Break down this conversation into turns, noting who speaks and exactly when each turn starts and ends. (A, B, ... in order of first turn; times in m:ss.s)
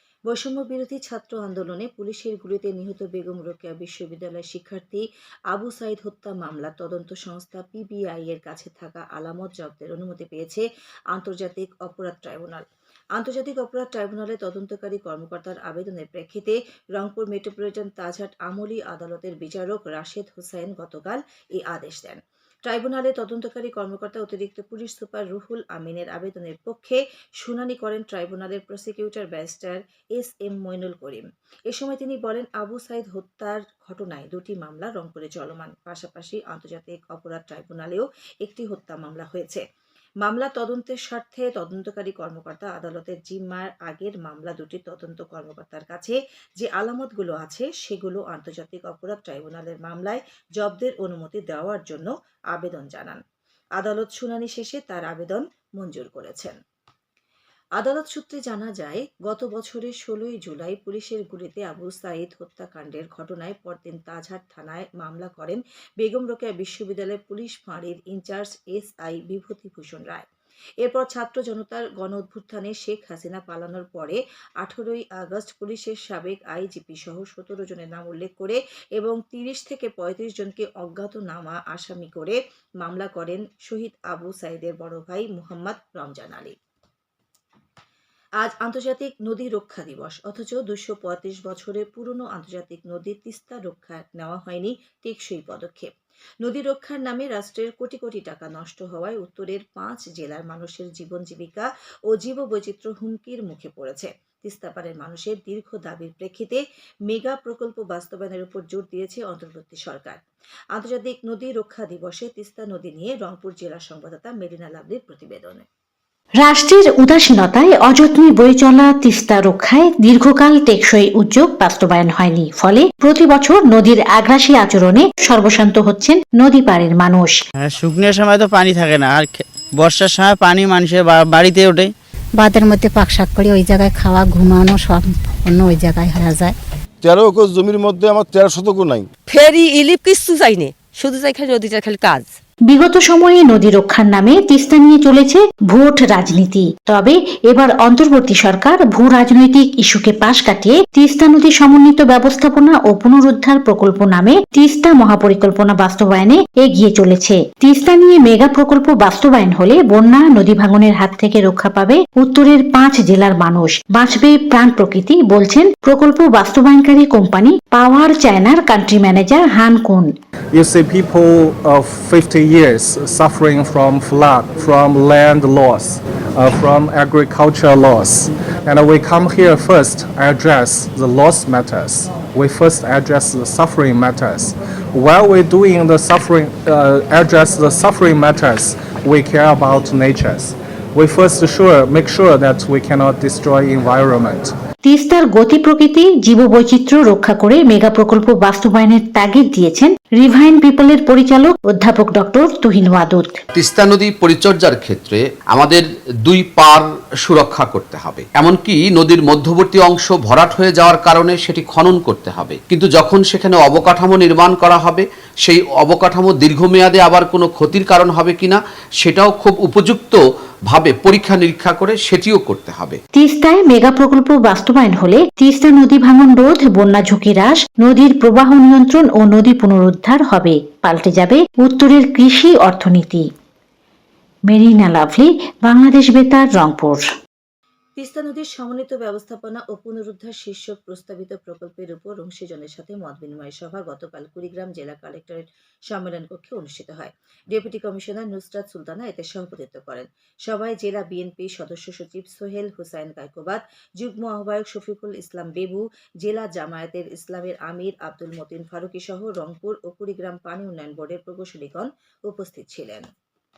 0:00.3-0:39.6 A
0:40.2-0:53.2 A
0:53.8-0:56.6 A
0:57.8-1:10.2 A
1:10.8-1:26.5 A
1:28.4-1:35.9 A
1:36.4-1:50.2 A
1:50.7-1:55.6 A
1:56.4-2:07.4 B
2:07.6-2:11.9 C
2:12.3-2:16.6 D
2:17.0-2:19.1 E
2:19.2-2:22.4 F
2:22.7-2:50.1 B
2:50.5-3:14.5 G
3:14.8-3:23.4 B
3:23.5-3:43.0 H
3:43.1-3:53.2 B
3:54.5-3:57.0 B
3:58.0-4:23.1 A